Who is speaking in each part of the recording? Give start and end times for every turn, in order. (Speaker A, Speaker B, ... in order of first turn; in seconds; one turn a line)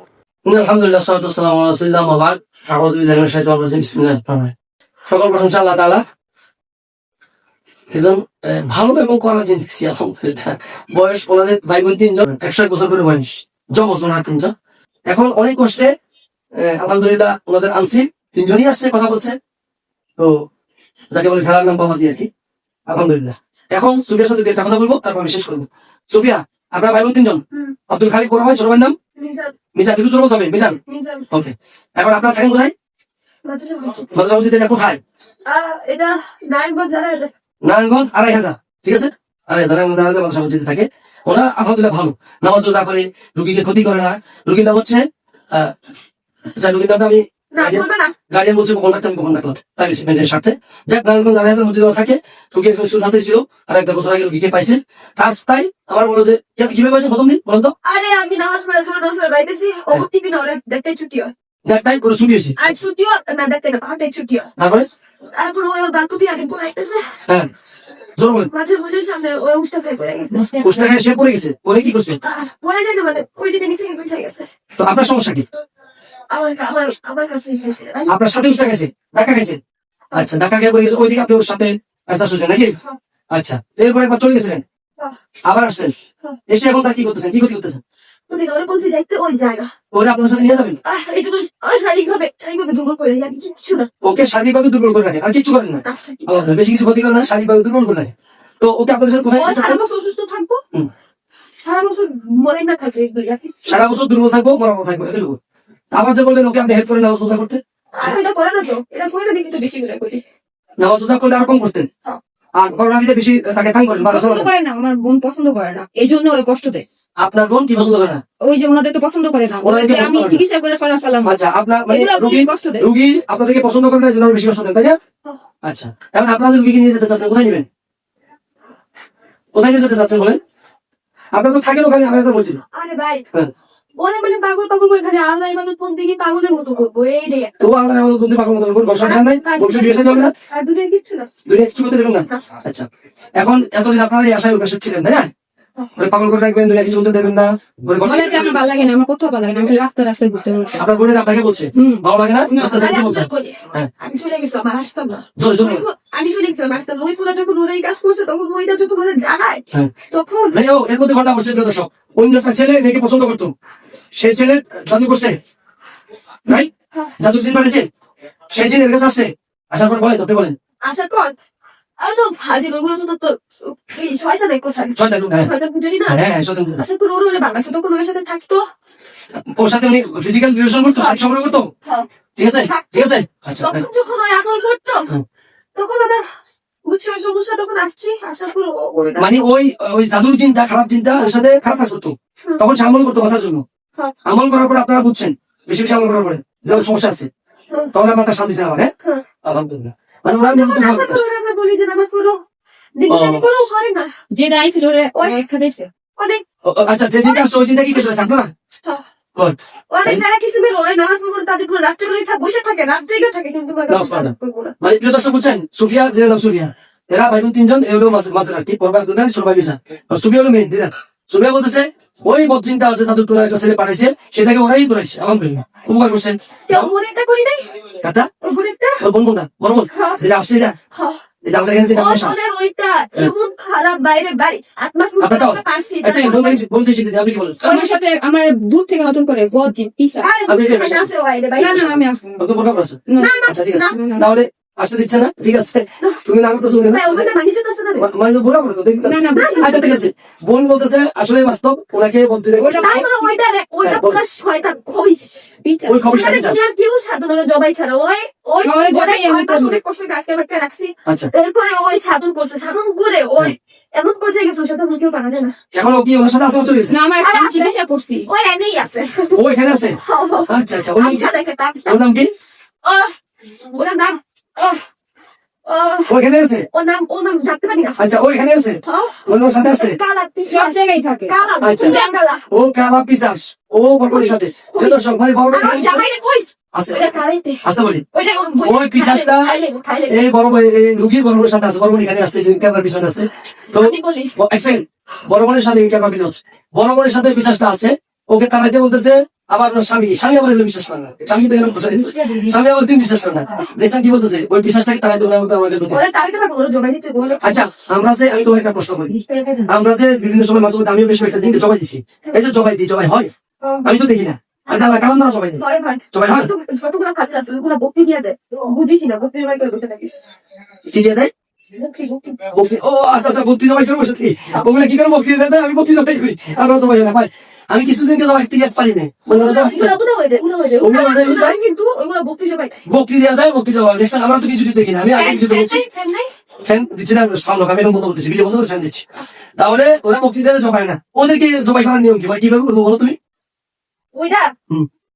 Speaker A: 0.5-4.5
Speaker A: 5.1-6.0
Speaker A: 7.9-14.5
Speaker A: 15.1-15.9
Speaker A: 16.5-19.4
Speaker A: 20.2-20.4
Speaker A: 21.1-22.3
Speaker A: 22.9-28.9
Speaker B: 29.1-29.5
Speaker A: 29.7-30.8
Speaker B: 30.9-31.2
Speaker A: 31.3-32.7
Speaker B: 33.4-34.1
Speaker A: 34.1-35.0
Speaker B: 35.5-37.3
Speaker A: 37.6-45.7
Speaker A: 46.5-57.7
Speaker B: 47.5-48.1
Speaker B: 57.8-61.3
Speaker A: 61.6-62.6
Speaker B: 62.6-64.5
Speaker A: 64.6-64.9
Speaker B: 65.3-67.1
Speaker A: 68.2-68.5
Speaker B: 68.4-70.9
Speaker A: 70.6-72.2
Speaker B: 72.2-74.5
Speaker A: 74.8-75.5
Speaker B: 76.3-78.1
Speaker A: 78.1-79.6
Speaker A: 80.1-82.8
Speaker A: 83.3-84.6
Speaker A: 85.4-85.9
Speaker A: 86.5-87.8
Speaker B: 88.3-89.7
Speaker A: 89.9-90.8
Speaker B: 90.8-93.9
Speaker A: 94.0-99.8
Speaker B: 95.8-96.5
Speaker B: 99.3-100.6
Speaker B: 101.6-103.8
Speaker A: 103.6-105.4
Speaker A: 105.9-107.6
Speaker B: 107.9-110.2
Speaker A: 110.8-111.9
Speaker A: 112.5-114.5
Speaker C: 114.0-116.8
Speaker A: 117.2-118.2
Speaker C: 118.4-122.8
Speaker A: 119.6-120.4
Speaker A: 121.2-125.0
Speaker A: 125.6-127.7
Speaker A: 129.5-130.4
Speaker A: 131.3-132.6
Speaker B: 132.7-133.2
Speaker B: 134.0-137.6
Speaker A: 137.6-140.3
Speaker B: 138.9-141.3
Speaker A: 141.4-145.3
Speaker A: 146.0-148.6
Speaker C: 148.0-150.8
Speaker A: 150.8-153.9
Speaker C: 151.8-152.9
Speaker B: 152.6-160.6
Speaker A: 155.4-155.9
Speaker A: 160.5-163.5
Speaker A: 164.1-165.4
Speaker A: 166.4-167.9
Speaker A: 168.5-170.6
Speaker B: 170.8-171.3
Speaker B: 172.0-178.7
Speaker A: 174.9-175.5
Speaker A: 176.1-176.8
Speaker A: 179.3-181.7
Speaker B: 180.9-185.1
Speaker A: 182.3-183.8
Speaker B: 185.7-186.2
Speaker B: 186.8-189.4
Speaker A: 189.2-193.6
Speaker A: 194.2-197.3
Speaker A: 197.9-201.2
Speaker B: 200.2-202.4
Speaker B: 202.9-204.1
Speaker A: 203.1-203.4
Speaker C: 204.3-205.9
Speaker B: 205.1-205.5
Speaker B: 206.0-206.4
Speaker A: 206.6-208.5
Speaker A: 209.3-210.2
Speaker B: 209.9-214.7
Speaker A: 213.9-226.9
Speaker B: 226.7-227.7
Speaker A: 228.0-228.3
Speaker B: 228.4-229.0
Speaker A: 229.0-230.8
Speaker B: 229.9-230.2
Speaker B: 230.9-231.2
Speaker A: 231.4-232.3
Speaker B: 231.9-236.6
Speaker A: 235.2-237.7
Speaker B: 237.6-237.9
Speaker C: 237.6-240.3
Speaker B: 240.2-241.8
Speaker A: 240.4-241.1
Speaker C: 241.6-242.5
Speaker A: 241.6-247.3
Speaker C: 243.1-244.4
Speaker B: 243.2-244.0
Speaker B: 246.8-248.1
Speaker A: 247.9-253.0
Speaker C: 249.0-249.8
Speaker B: 249.3-250.1
Speaker C: 252.6-253.3
Speaker B: 252.7-255.5
Speaker A: 253.8-254.2
Speaker C: 255.6-256.3
Speaker A: 255.8-256.6
Speaker B: 256.1-265.6
Speaker C: 258.6-259.8
Speaker A: 261.0-261.3
Speaker A: 265.7-267.0
Speaker C: 266.9-268.3
Speaker B: 267.2-269.4
Speaker A: 269.3-272.3
Speaker B: 270.0-272.0
Speaker B: 272.8-273.1
Speaker B: 273.7-274.8
Speaker B: 275.6-276.2
Speaker A: 276.1-276.7
Speaker B: 276.7-278.2
Speaker A: 278.0-280.0
Speaker B: 278.8-282.4
Speaker C: 280.5-282.1
Speaker A: 281.6-286.1
Speaker B: 284.1-290.3
Speaker A: 286.7-288.0
Speaker A: 288.6-306.0
Speaker B: 293.7-294.4
Speaker B: 305.9-307.7
Speaker A: 307.4-309.1
Speaker B: 309.1-309.8
Speaker A: 309.7-313.3
Speaker B: 313.6-313.9
Speaker A: 313.8-316.5
Speaker B: 314.7-320.1
Speaker A: 320.9-321.3
Speaker B: 321.7-322.6
Speaker A: 322.5-330.0
Speaker B: 329.3-332.8
Speaker A: 330.8-331.6
Speaker A: 332.9-335.8
Speaker B: 335.1-336.3
Speaker A: 336.6-339.0
Speaker A: 339.6-343.2
Speaker B: 344.1-344.5